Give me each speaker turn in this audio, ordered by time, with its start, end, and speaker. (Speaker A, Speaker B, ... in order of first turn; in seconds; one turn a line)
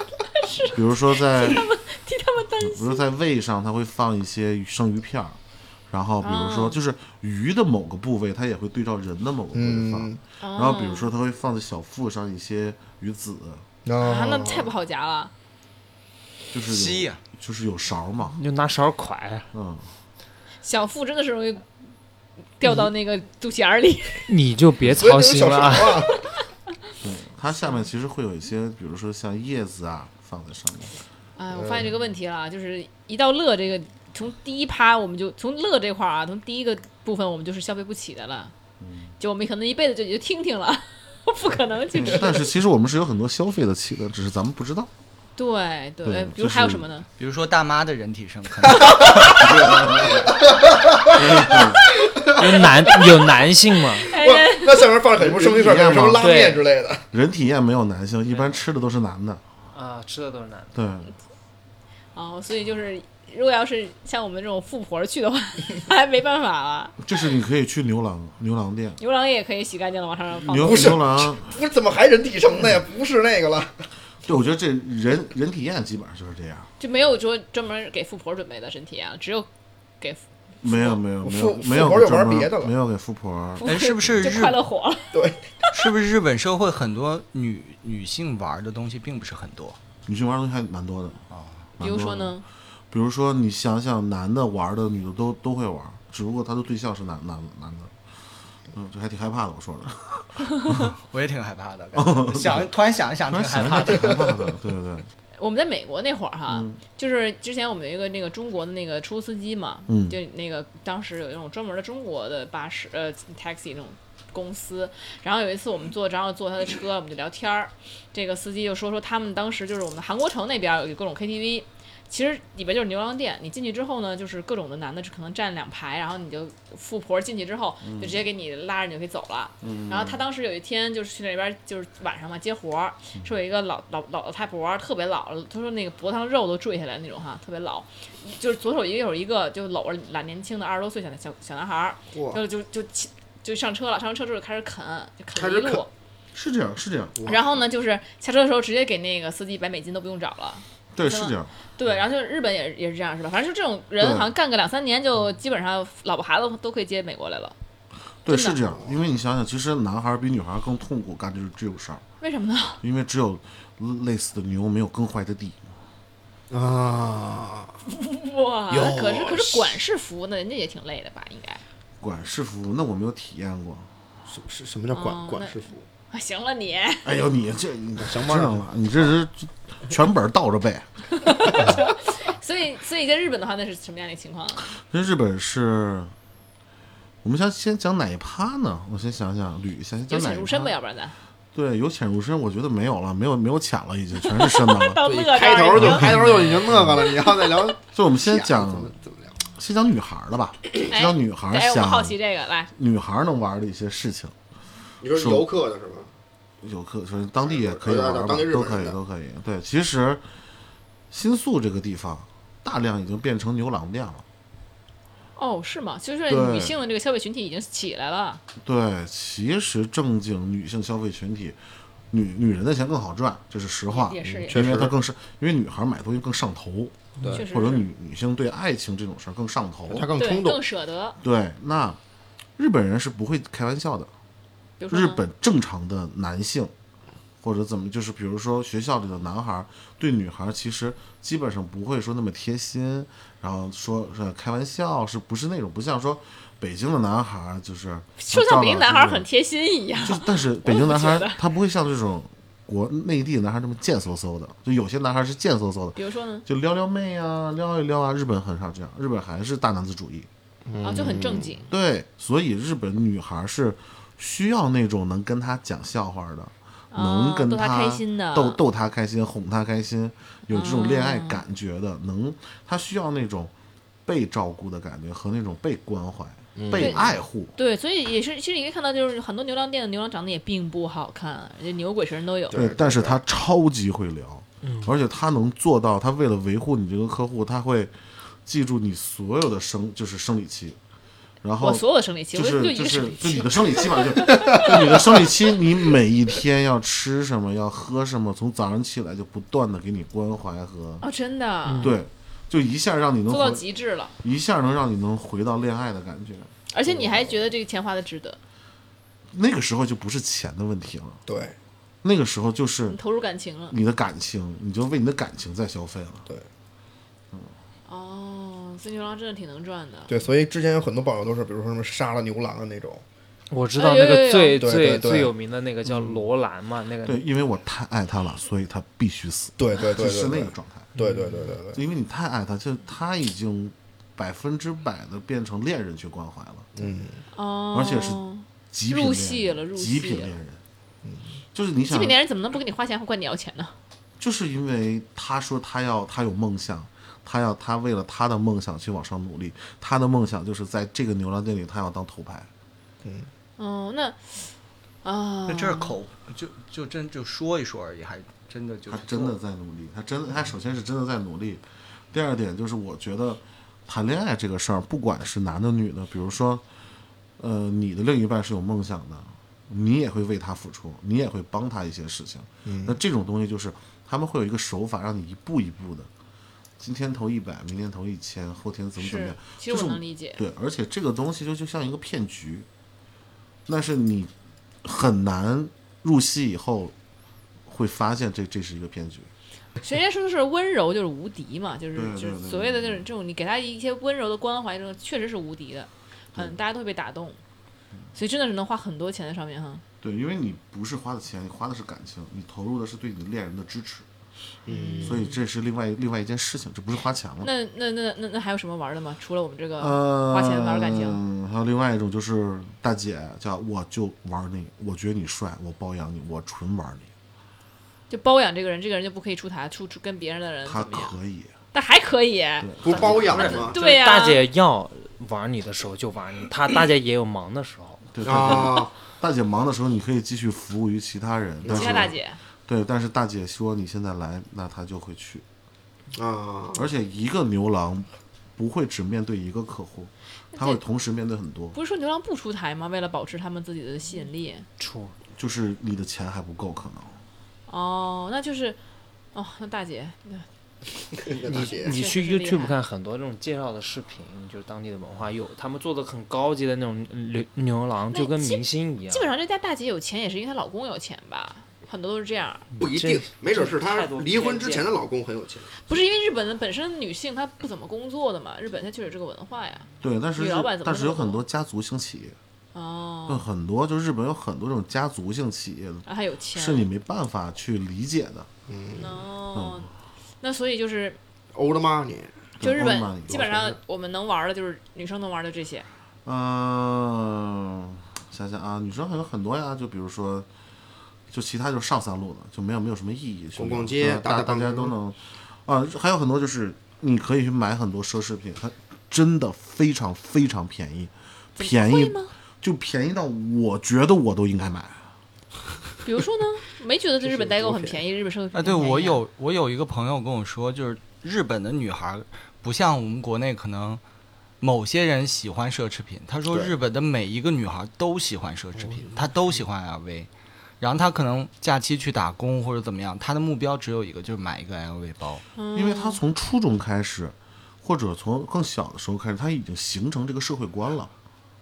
Speaker A: 0.3-3.0
Speaker B: 0.7-1.6
Speaker B: 2.6-5.4
Speaker B: 5.9-13.7
Speaker A: 6.2-6.8
Speaker C: 9.5-10.2
Speaker A: 10.4-11.1
Speaker C: 13.8-14.7
Speaker A: 14.0-15.3
Speaker B: 16.5-18.4
Speaker D: 16.7-17.2
Speaker E: 18.3-19.5
Speaker B: 19.5-19.9
Speaker A: 20.6-21.7
Speaker A: 22.6-24.3
Speaker E: 24.3-26.1
Speaker C: 24.9-26.1
Speaker B: 27.0-31.0
Speaker A: 31.4-38.5
Speaker C: 31.6-31.9
Speaker B: 38.8-39.1
Speaker A: 39.2-42.4
Speaker B: 41.9-44.9
Speaker A: 45.4-47.1
Speaker B: 46.0-46.9
Speaker D: 47.2-50.2
Speaker B: 49.4-50.2
Speaker C: 50.3-53.0
Speaker B: 51.1-51.8
Speaker E: 52.3-54.1
Speaker C: 54.0-57.0
Speaker A: 54.1-54.9
Speaker B: 55.2-56.3
Speaker E: 56.2-56.6
Speaker B: 57.1-59.4
Speaker E: 58.3-58.6
Speaker E: 59.7-60.8
Speaker B: 60.7-61.1
Speaker A: 62.1-67.0
Speaker B: 67.0-69.0
Speaker A: 69.0-71.0
Speaker B: 70.5-71.6
Speaker C: 70.5-73.8
Speaker B: 74.2-76.7
Speaker A: 76.8-79.5
Speaker A: 80.0-81.0
Speaker B: 80.6-83.7
Speaker C: 81.2-82.7
Speaker A: 83.6-85.2
Speaker D: 83.6-84.6
Speaker C: 85.1-85.4
Speaker D: 85.7-89.8
Speaker B: 90.1-91.2
Speaker D: 91.3-91.7
Speaker B: 91.8-92.4
Speaker A: 91.8-92.5
Speaker B: 92.9-97.9
Speaker B: 98.7-100.8
Speaker D: 100.9-104.3
Speaker B: 102.0-102.7
Speaker B: 103.3-105.1
Speaker A: 105.4-145.9
Speaker B: 106.5-106.8
Speaker B: 109.9-110.2
Speaker B: 127.8-128.2
Speaker B: 129.6-130.2
Speaker C: 142.1-142.4
Speaker C: 145.4-145.9
Speaker B: 146.3-147.2
Speaker C: 147.2-147.4
Speaker A: 147.3-157.6
Speaker B: 150.9-151.5
Speaker B: 154.0-154.3
Speaker B: 158.2-162.0
Speaker A: 158.3-158.6
Speaker A: 162.2-162.8
Speaker B: 162.8-165.6
Speaker C: 166.5-167.8
Speaker A: 167.9-171.6
Speaker C: 168.7-169.8
Speaker B: 172.0-173.9
Speaker C: 174.3-175.8
Speaker A: 174.9-175.6
Speaker A: 176.1-177.1
Speaker B: 177.1-180.9
Speaker C: 178.0-178.7
Speaker A: 181.2-184.7
Speaker B: 181.5-181.8
Speaker B: 184.8-186.1
Speaker B: 187.2-190.8
Speaker A: 190.1-191.2
Speaker B: 191.5-195.0
Speaker A: 194.3-197.7
Speaker C: 195.0-199.3
Speaker B: 195.8-197.0
Speaker B: 197.9-198.9
Speaker B: 199.5-202.2
Speaker A: 200.9-202.7
Speaker B: 202.7-204.3
Speaker C: 205.0-206.1
Speaker B: 205.1-205.5
Speaker B: 206.6-210.2
Speaker C: 207.4-209.0
Speaker B: 211.1-214.2
Speaker A: 215.4-218.4
Speaker B: 216.3-216.8
Speaker B: 218.6-221.6
Speaker B: 222.1-230.1
Speaker A: 223.9-224.7
Speaker C: 224.5-224.9
Speaker C: 227.2-227.4
Speaker A: 227.3-227.9
Speaker C: 229.9-230.6
Speaker A: 230.2-231.2
Speaker B: 231.2-232.0
Speaker B: 232.6-234.1
Speaker A: 234.8-235.2
Speaker B: 234.9-236.7
Speaker B: 237.4-249.3
Speaker A: 248.2-251.4
Speaker B: 250.0-260.3
Speaker A: 256.0-256.4
Speaker C: 260.7-261.5
Speaker A: 260.8-261.7
Speaker B: 261.7-273.5
Speaker A: 266.9-268.6
Speaker A: 270.5-271.4
Speaker B: 274.1-277.5
Speaker C: 276.6-277.1
Speaker A: 276.8-282.7
Speaker C: 282.5-283.2
Speaker B: 282.5-287.9
Speaker E: 284.6-284.9
Speaker B: 288.4-290.8
Speaker B: 291.4-301.0
Speaker A: 291.6-294.7
Speaker A: 301.0-301.9
Speaker E: 301.7-302.0
Speaker B: 301.8-303.6
Speaker A: 303.3-304.1
Speaker B: 304.2-306.5
Speaker A: 306.7-308.4
Speaker C: 306.9-307.4
Speaker B: 309.3-311.2
Speaker C: 311.3-311.6
Speaker B: 312.0-313.0
Speaker A: 312.9-313.8
Speaker B: 313.7-316.3
Speaker A: 317.9-320.1
Speaker C: 320.1-323.0
Speaker E: 323.5-327.2
Speaker A: 323.8-324.7
Speaker C: 324.6-325.3
Speaker B: 327.0-330.9
Speaker C: 329.6-331.8
Speaker E: 331.0-331.4
Speaker B: 331.7-336.7
Speaker C: 336.8-337.2
Speaker A: 337.3-340.3
Speaker B: 337.7-338.2
Speaker B: 338.7-340.6
Speaker C: 341.0-341.4
Speaker B: 341.5-342.2
Speaker A: 341.9-343.8
Speaker B: 344.2-352.5
Speaker C: 353.0-353.3
Speaker A: 353.6-354.5
Speaker A: 355.0-356.0
Speaker D: 355.5-359.4
Speaker B: 358.9-366.6
Speaker B: 367.4-376.1
Speaker C: 372.6-373.0
Speaker B: 376.8-382.7
Speaker A: 379.0-380.4
Speaker B: 383.7-384.3
Speaker B: 384.8-386.9
Speaker B: 387.7-389.3
Speaker A: 389.8-397.4
Speaker B: 391.9-393.1
Speaker A: 398.1-399.8
Speaker B: 400.0-404.1
Speaker C: 404.7-405.2
Speaker A: 404.7-405.4
Speaker B: 405.0-407.5
Speaker A: 407.4-411.2
Speaker B: 409.8-417.1
Speaker A: 418.1-421.1
Speaker B: 420.6-421.5
Speaker A: 421.7-422.7
Speaker B: 422.6-423.6
Speaker C: 422.8-423.8
Speaker E: 422.9-428.6
Speaker A: 423.7-424.4
Speaker B: 428.1-432.1
Speaker C: 428.2-428.9
Speaker C: 431.6-432.1
Speaker A: 431.7-432.4
Speaker B: 432.7-435.4
Speaker C: 436.1-436.9
Speaker B: 436.7-441.8
Speaker A: 440.5-440.8
Speaker A: 441.7-444.7
Speaker E: 444.8-445.2
Speaker B: 445.4-447.2
Speaker A: 447.7-448.8
Speaker A: 449.3-450.5
Speaker C: 451.2-451.9
Speaker E: 451.4-459.3
Speaker A: 451.5-452.8
Speaker A: 458.1-462.6
Speaker E: 462.8-465.0
Speaker C: 462.8-465.8
Speaker A: 465.9-471.4
Speaker B: 470.0-472.4
Speaker A: 472.7-473.5
Speaker B: 473.3-478.5
Speaker A: 476.1-476.9
Speaker C: 478.7-479.2
Speaker A: 479.0-481.2
Speaker B: 479.5-479.9
Speaker C: 481.5-482.4
Speaker B: 482.6-483.5
Speaker A: 482.6-485.9
Speaker C: 483.3-483.8
Speaker B: 486.2-490.5
Speaker B: 491.3-505.1
Speaker C: 493.6-494.9
Speaker A: 501.6-502.3
Speaker A: 506.1-509.2
Speaker C: 507.2-508.0
Speaker D: 508.5-514.0
Speaker D: 514.6-520.3
Speaker C: 518.8-519.3
Speaker D: 520.8-525.5
Speaker A: 525.6-526.2
Speaker B: 525.7-531.1